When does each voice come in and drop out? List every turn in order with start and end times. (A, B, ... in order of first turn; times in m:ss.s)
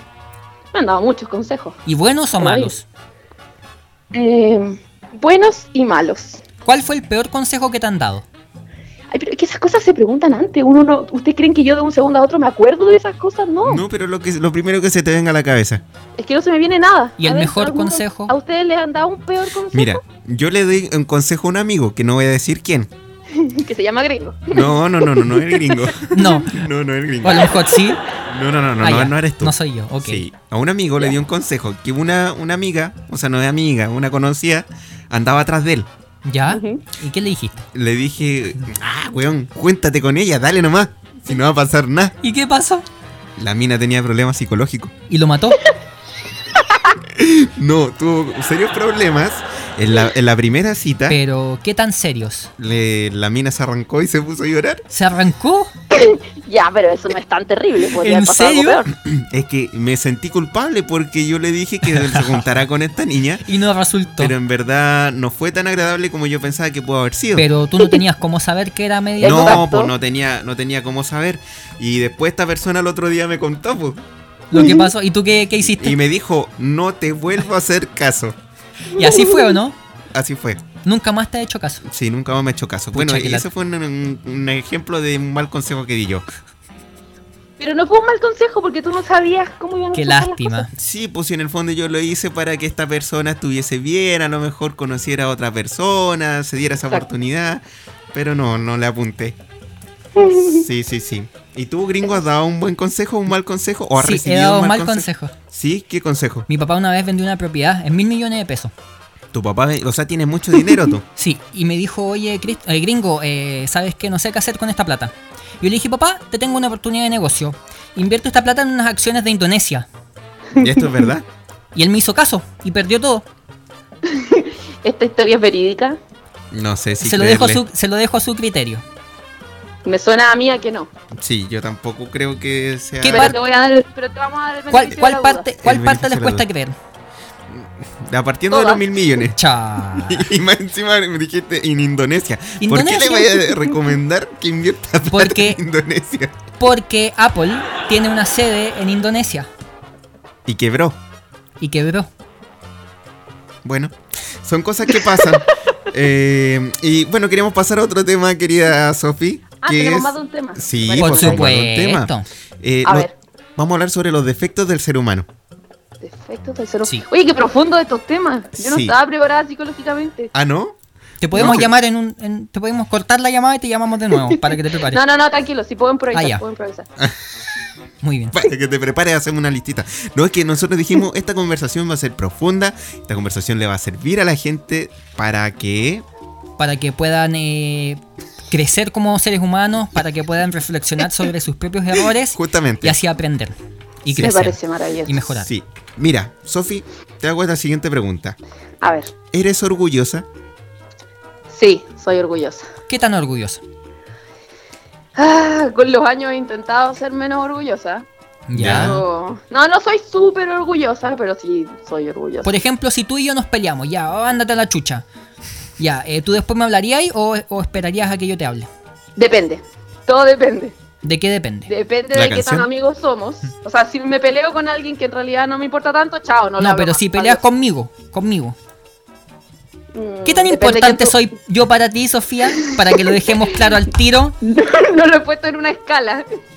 0:00.7-0:01.8 A
0:01.9-0:02.8 B
0:02.4-0:02.7 A
0:04.1-0:06.4 A
0:06.7-0:08.3 B
0:09.1-0:13.8 A
0:13.6-0:15.8 C
0:16.2-0:20.0 A
0:17.2-0:18.3 B
0:19.7-0:22.9 C
0:23.3-0:26.3 A
0:24.5-0:27.6 C
0:26.1-0:26.7 B
0:27.2-0:28.0 B
0:27.4-0:28.0 A
0:28.3-0:35.9 C
0:28.8-0:30.3 B
0:36.2-0:37.7 B
0:36.5-0:36.8 A
0:37.7-0:42.2 C
0:42.2-0:42.9 B
0:43.4-0:44.9 C
0:45.1-0:45.6 B
0:46.5-0:47.0 A
0:47.1-0:51.2 C
0:51.1-0:52.5 B
0:52.6-0:54.8 C
0:54.9-0:55.7 B
0:55.9-0:58.9 A
0:58.0-0:58.8 B
0:58.9-1:03.4 C
1:01.9-1:02.4 B
1:03.4-1:04.4 B
1:04.2-1:07.5 C
1:07.4-1:09.6 B
1:09.2-1:09.9 A
1:09.2-1:14.0 C
1:14.5-1:16.0 B
1:14.6-1:14.8 A
1:15.8-1:18.4 C
1:18.9-1:19.8 B
1:19.0-1:19.6 A
1:20.1-1:20.6 C
1:20.8-1:21.8 B
1:21.8-1:26.2 C
1:22.9-1:23.5 B
1:27.6-1:30.7 A
1:29.9-1:30.7 B
1:30.8-1:39.4 C
1:40.2-1:40.6 A
1:40.4-1:46.5 C
1:44.0-1:45.3 B
1:46.5-1:48.7 B
1:49.3-1:51.0 C
1:51.2-1:59.9 B
2:00.6-2:01.1 A
2:00.6-2:01.2 C
2:01.7-2:03.3 B
2:04.0-2:06.0 A
2:06.5-2:07.6 C
2:07.0-2:08.8 B
2:09.8-2:10.9 A
2:11.2-2:13.4 C
2:13.0-2:13.4 B
2:13.1-2:15.5 A
2:14.7-2:16.8 B
2:15.6-2:16.4 C
2:17.5-2:19.4 C
2:18.5-2:18.9 A
2:19.3-2:20.3 B
2:19.9-2:26.4 C
2:22.6-2:23.6 B
2:25.1-2:25.6 B
2:26.6-2:29.5 B
2:30.5-2:31.0 C
2:31.6-2:32.1 B
2:33.6-2:42.1 C
2:35.1-2:35.4 A
2:39.6-2:41.5 A
2:41.0-2:42.3 B
2:42.6-2:45.3 C
2:42.8-2:43.1 A
2:46.0-2:50.3 A
2:48.6-2:48.9 C
2:50.3-2:50.8 C
2:51.2-2:55.0 B
2:51.3-2:51.7 C
2:51.4-2:51.6 A
2:54.2-2:56.9 A
2:56.1-2:56.4 B
2:58.0-2:58.4 B
2:58.3-3:06.0 C
3:06.6-3:15.5 B
3:12.3-3:13.0 C
3:14.2-3:15.3 A
3:15.4-3:18.4 C
3:18.8-3:19.1 A
3:19.3-3:20.3 C
3:21.5-3:22.7 A
3:22.9-3:23.6 B
3:25.2-3:28.1 A
3:28.5-3:29.0 B
3:28.6-3:29.0 C
3:28.6-3:32.5 A
3:32.4-3:35.0 B
3:35.8-3:38.7 B
3:39.2-3:40.8 A
3:41.0-3:41.7 B
3:41.7-3:47.4 A
3:42.1-3:42.7 C
3:46.6-3:48.6 B
3:49.9-3:51.2 A
3:50.2-3:54.4 B
3:52.5-3:53.8 A
3:54.4-3:56.3 A